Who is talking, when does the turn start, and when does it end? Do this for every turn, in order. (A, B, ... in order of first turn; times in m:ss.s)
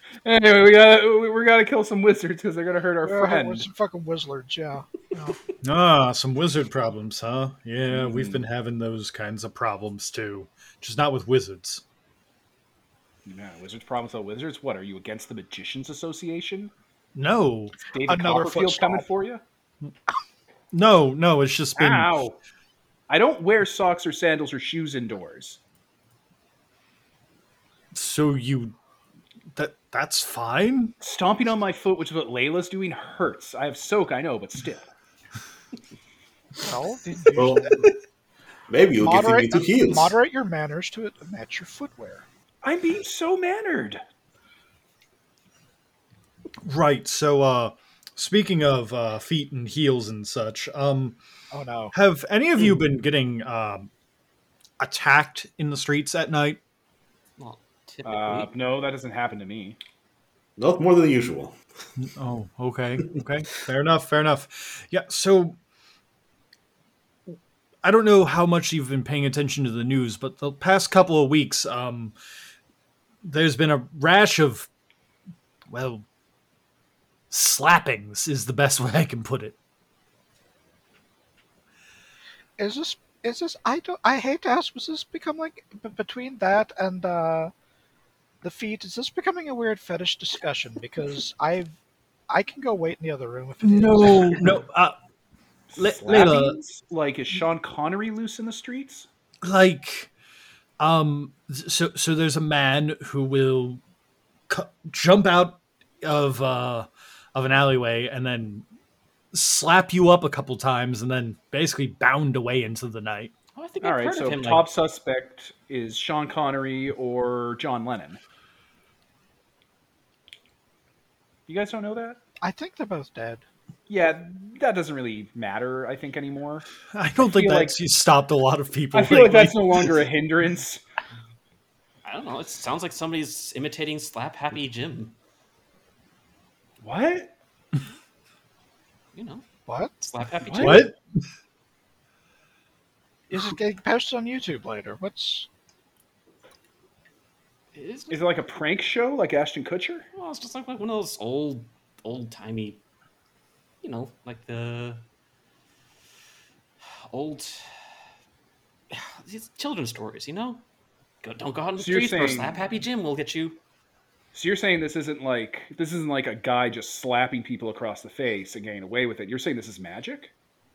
0:00.2-0:03.7 A
0:03.0-0:05.4 B
0:05.6-0:11.8 C
0:07.9-0:08.4 A
0:13.2-0:16.7 A
0:17.1-0:17.8 C
0:17.8-0:19.4 A
0:18.1-0:19.0 B
0:20.7-0:22.1 C
0:21.8-0:22.4 A
0:23.1-0:25.6 A
0:27.9-0:28.7 C
0:29.6-0:30.9 C
0:31.0-0:34.8 A
0:36.6-0:37.9 B
0:37.3-0:37.8 D
0:38.7-0:40.2 D
0:39.0-0:42.2 B
0:42.6-0:44.0 A
0:46.6-0:51.2 C
0:51.5-0:51.9 B
0:51.9-0:53.9 C
0:54.8-0:56.6 C
0:57.4-0:58.5 E
0:58.0-0:59.8 A
1:00.6-1:01.5 D
1:02.0-1:05.6 C
1:07.8-1:12.1 C
1:13.2-1:14.7 C
1:15.7-1:16.0 C
1:17.3-1:19.6 C
1:22.6-1:27.5 B
1:28.4-1:31.7 B
1:32.3-1:34.5 B
1:33.6-1:34.9 C
1:35.7-1:39.1 A
1:35.8-1:36.6 C
1:39.4-1:40.1 C
1:40.8-1:43.8 C
1:44.5-1:48.6 C
1:49.3-1:53.3 C
1:53.6-1:54.7 E
1:53.8-1:58.2 A
2:01.5-2:02.2 A
2:02.4-2:03.4 B
2:03.9-2:06.7 A
2:06.9-2:10.0 C
2:07.2-2:07.8 A
2:08.9-2:10.8 A
2:12.0-2:15.1 E
2:16.8-2:17.3 A
2:19.1-2:19.4 E
2:19.7-2:19.9 B
2:20.0-2:20.9 E
2:20.4-2:20.8 A
2:20.6-2:21.0 C
2:23.3-2:25.5 B
2:27.7-2:28.2 E
2:28.1-2:30.1 A
2:30.1-2:32.8 E
2:33.8-2:35.0 E
2:36.9-2:37.8 E
2:38.9-2:40.6 E
2:41.2-2:43.6 E
2:41.8-2:42.6 A
2:44.3-2:50.3 A